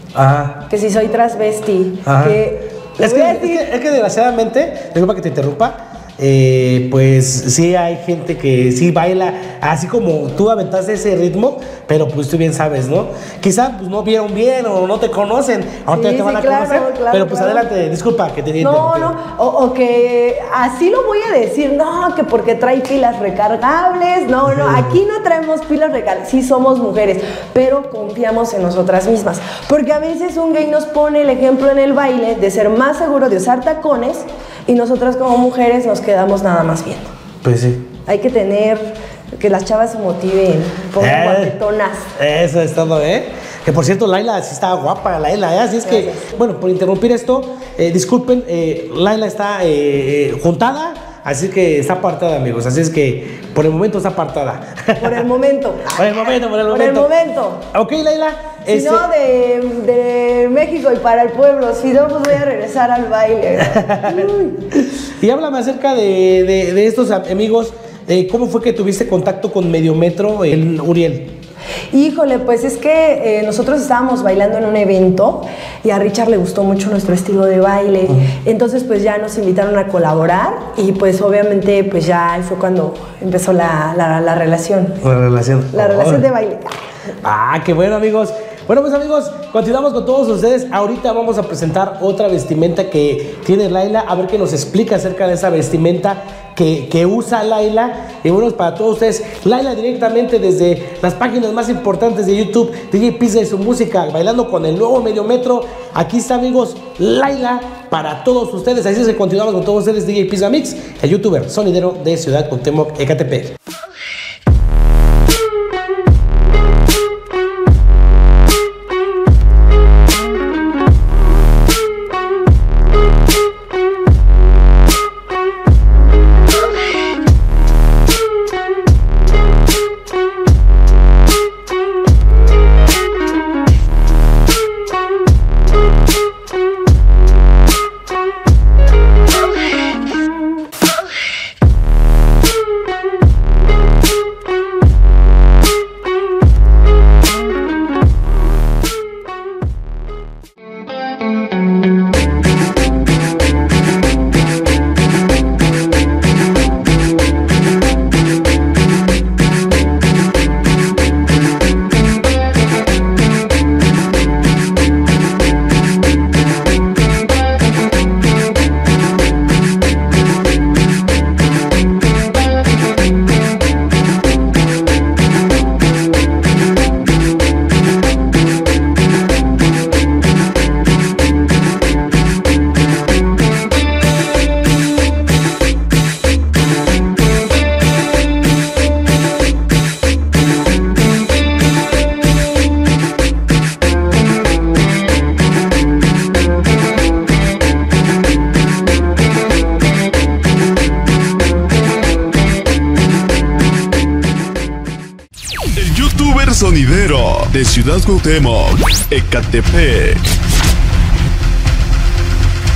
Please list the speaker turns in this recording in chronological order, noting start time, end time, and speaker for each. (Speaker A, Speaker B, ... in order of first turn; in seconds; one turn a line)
Speaker A: 0.1-0.6
Speaker B: 0.7-3.7
Speaker A: 2.0-2.4
Speaker A: 3.0-19.1
Speaker B: 15.9-17.7
Speaker B: 18.6-37.1
Speaker A: 37.4-37.9
Speaker B: 38.1-42.1
Speaker A: 41.0-41.5
Speaker A: 42.1-55.2
Speaker B: 45.8-46.3
Speaker B: 55.0-57.6
Speaker A: 55.9-57.1
Speaker A: 57.7-59.1
Speaker B: 58.7-64.6
Speaker A: 63.6-71.3
Speaker B: 71.9-85.0
Speaker A: 85.0-86.2
Speaker B: 85.7-86.8
Speaker A: 87.2-113.5
Speaker C: 205.8-210.3